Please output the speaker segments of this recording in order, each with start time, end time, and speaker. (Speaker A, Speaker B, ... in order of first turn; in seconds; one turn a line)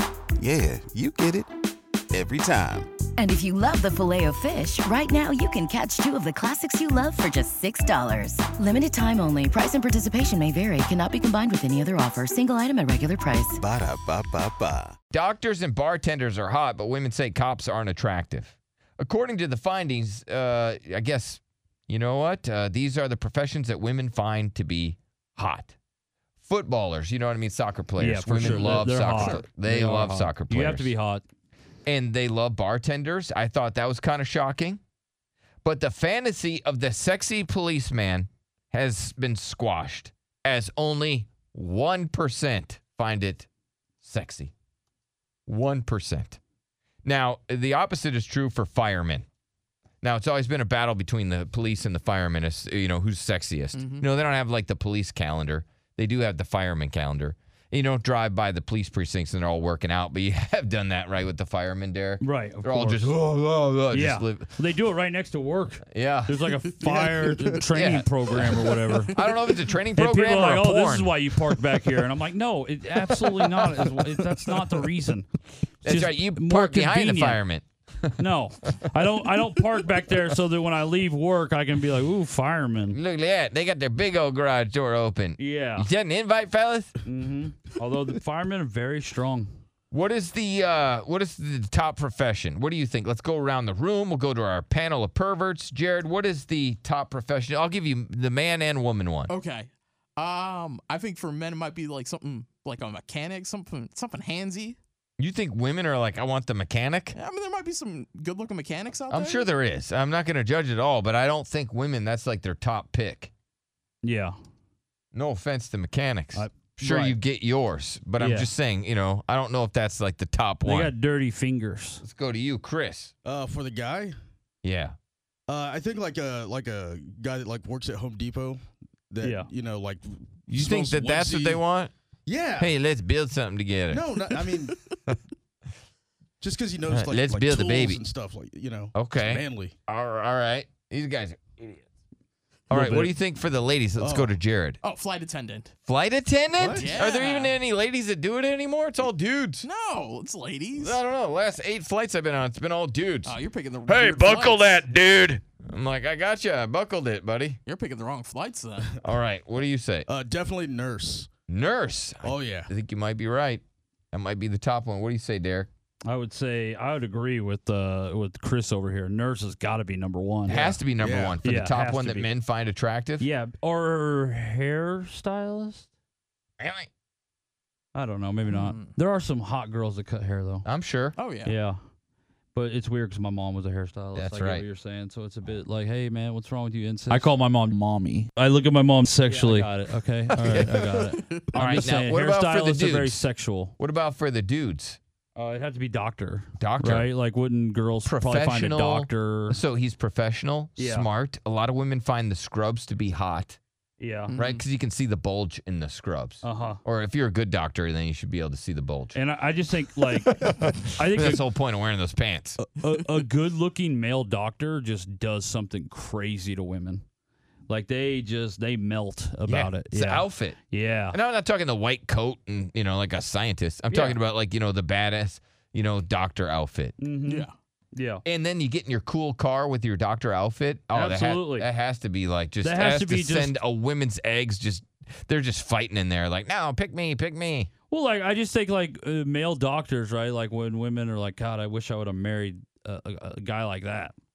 Speaker A: 0.4-1.5
Speaker A: 2.1-2.9
Speaker B: 3.2-13.6
Speaker A: 13.6-14.9
Speaker C: 15.1-25.7
Speaker C: 26.4-30.9
Speaker D: 28.0-31.2
Speaker E: 28.4-29.3
Speaker C: 31.9-34.8
Speaker C: 35.6-43.5
Speaker C: 44.0-44.5
Speaker C: 45.5-46.4
Speaker C: 47.0-49.2
Speaker C: 50.0-64.5
Speaker E: 53.7-54.0
Speaker D: 62.2-63.1
Speaker D: 63.9-69.1
Speaker C: 65.9-66.5
Speaker E: 66.9-67.5
Speaker C: 67.7-71.1
Speaker D: 70.0-75.3
Speaker D: 75.8-77.4
Speaker C: 75.8-78.1
Speaker D: 78.2-83.0
Speaker C: 82.9-86.9
Speaker D: 85.4-85.9
Speaker D: 87.0-89.5
Speaker C: 89.9-99.3
Speaker E: 99.3-104.8
Speaker C: 105.2-107.2
Speaker E: 107.1-109.5
Speaker C: 109.1-113.3
Speaker D: 114.0-114.3
Speaker C: 115.1-120.9
Speaker D: 116.3-117.2
Speaker D: 118.2-118.5
Speaker D: 120.6-122.0
Speaker C: 122.0-123.1
Speaker F: 123.2-124.1
Speaker C: 124.6-124.9
Speaker F: 125.5-131.6
Speaker D: 129.2-129.5
Speaker C: 130.5-131.9
Speaker F: 132.2-132.8
Speaker C: 132.6-134.6
Speaker F: 133.9-134.7
Speaker F: 136.4-139.7
Speaker C: 136.9-138.0
Speaker C: 138.9-141.8
Speaker C: 142.7-144.8
Speaker F: 142.8-143.1
Speaker F: 144.0-144.3
Speaker E: 144.8-145.7
Speaker C: 145.8-149.7
Speaker F: 146.6-146.9
Speaker E: 146.8-147.6
Speaker E: 149.6-151.0
Speaker C: 150.8-157.6
Speaker E: 153.2-154.8
Speaker E: 157.7-158.9
Speaker C: 159.0-160.1
Speaker F: 160.1-161.3
Speaker C: 161.5-165.7
Speaker F: 162.2-162.7
Speaker D: 166.1-170.8
Speaker C: 170.4-173.3
Speaker F: 171.0-171.3
Speaker D: 171.4-172.3
Speaker D: 173.2-175.9
Speaker C: 176.6-176.9
Speaker D: 177.9-180.7
Speaker E: 178.5-178.9
Speaker C: 180.6-181.2
Speaker E: 181.2-181.6
Speaker D: 181.4-181.8
Speaker D: 182.5-187.8
Speaker C: 184.1-184.6
Speaker D: 188.3-193.7
Speaker C: 190.4-190.9
Speaker C: 191.5-193.2
Speaker C: 193.8-195.0
Speaker D: 195.3-199.6
Speaker C: 196.6-197.1
Speaker C: 198.0-203.6
Speaker D: 200.8-201.1
Speaker D: 204.0-204.3
Speaker E: 204.3-204.6
Speaker C: 204.3-209.2
Speaker D: 206.4-206.8
Speaker D: 209.1-211.4
Speaker C: 210.2-212.6
Speaker D: 212.8-217.0
Speaker D: 217.7-221.2
Speaker C: 219.4-220.6
Speaker C: 221.1-226.9
Speaker D: 223.9-224.2
Speaker D: 227.0-228.2
Speaker E: 227.2-227.5
Speaker C: 228.2-237.7
Speaker D: 230.9-231.7
Speaker D: 232.6-233.6
Speaker D: 237.9-244.1